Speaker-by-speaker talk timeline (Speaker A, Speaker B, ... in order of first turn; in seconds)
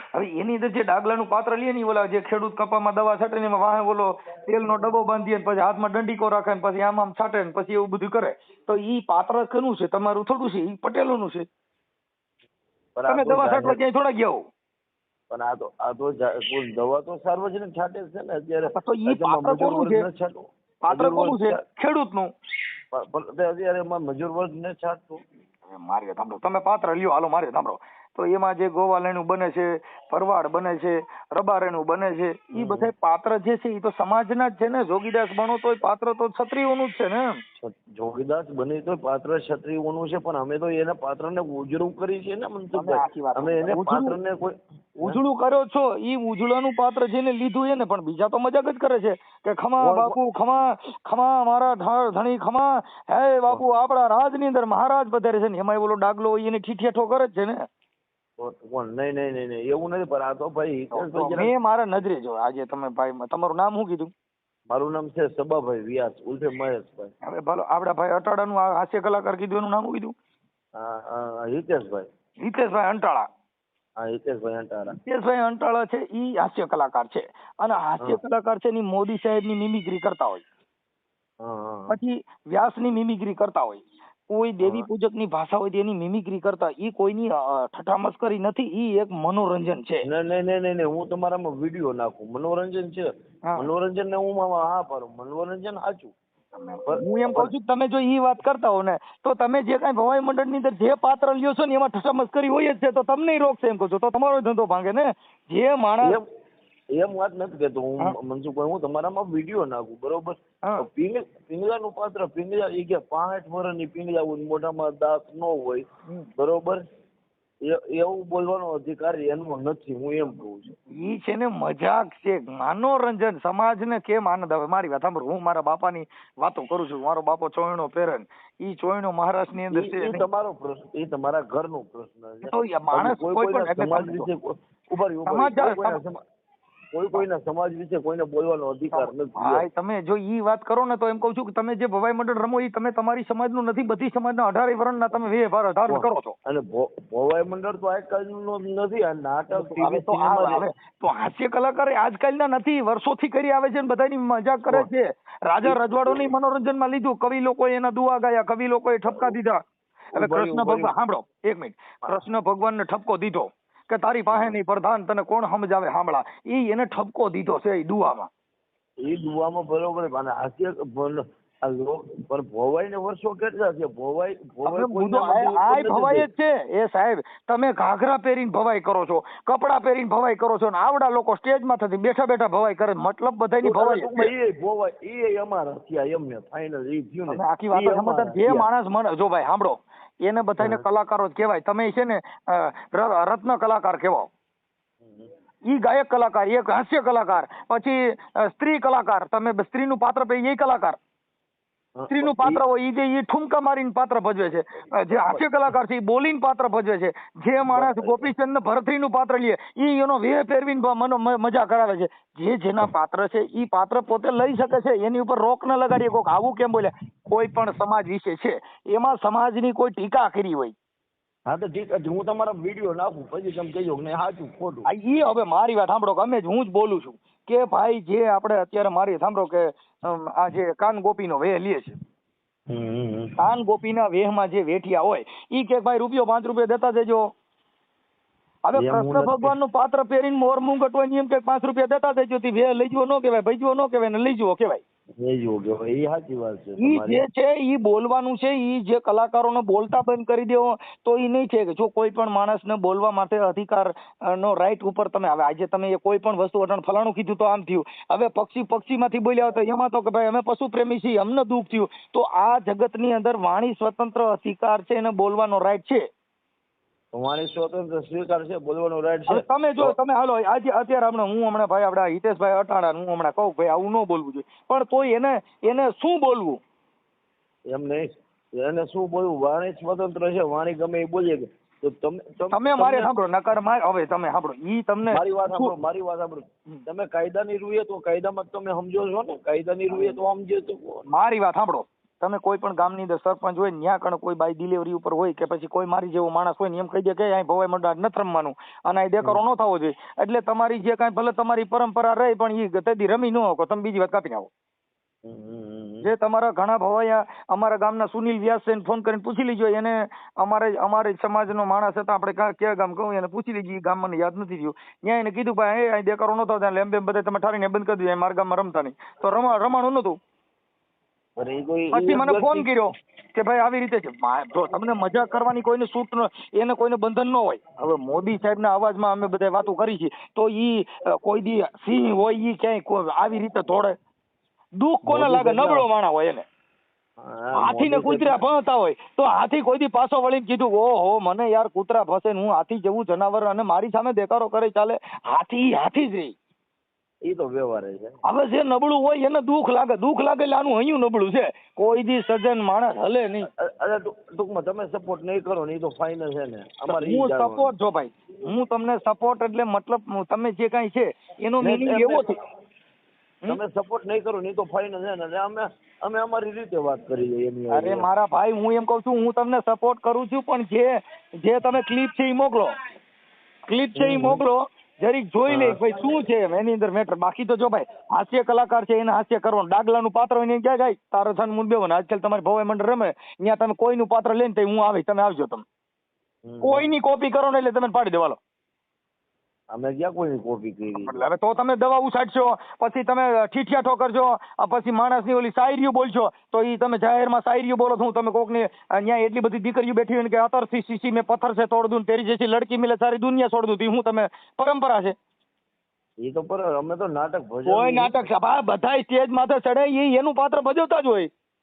Speaker A: 0.2-11.5, 13.1-14.4, 18.6-20.1, 20.8-22.3, 25.7-37.4, 42.7-44.2, 45.0-57.6, 60.9-64.1, 67.2-70.1, 72.4-73.2, 75.0-80.4, 81.9-90.0, 96.5-106.2, 120.9-130.2, 132.4-134.3, 135.3-136.0, 138.9-146.3, 149.5-159.6, 160.1-168.3, 174.7-184.3, 187.3-194.3, 195.7-201.0, 202.1-220.7, 224.8-232.0, 233.4-237.3, 238.7-244.8, 246.8-266.0, 269.3-276.6, 282.5-285.7, 291.1-304.5, 306.0-320.2, 321.9-334.0, 334.8-336.4, 337.6-346.3, 348.2-353.5, 356.9-362.3, 367.7-372.8, 373.7-385.6, 386.6-388.4, 390.9-405.1, 407.6-411.3
Speaker B: 12.9-13.8, 15.3-21.6, 22.9-25.2, 32.5-32.9, 37.6-45.2, 49.8-50.2, 58.4-61.5, 64.7-67.1, 70.8-72.1, 74.0-75.0, 81.4-82.0, 90.0-96.1, 96.9-97.5, 106.9-116.8, 117.6-120.7, 129.7-136.2, 136.9-139.7, 145.9-150.7, 155.6-156.3, 159.1-159.4, 160.1-160.9, 164.3-164.6, 169.0-176.3, 183.6-188.7, 195.0-195.3, 202.0-202.6, 205.1-205.5, 207.7-208.3, 221.5-224.9, 232.7-233.3, 238.7-239.5, 245.2-247.2, 267.1-270.0, 277.7-283.1, 285.1-291.0, 305.2-306.1, 321.4-322.7, 335.1-335.9, 337.2-338.4, 347.2-348.2, 353.6-357.7, 361.6-362.4, 363.5-368.1, 374.0-374.4, 375.5-375.8, 386.4-386.9, 389.7-391.2, 406.2-408.2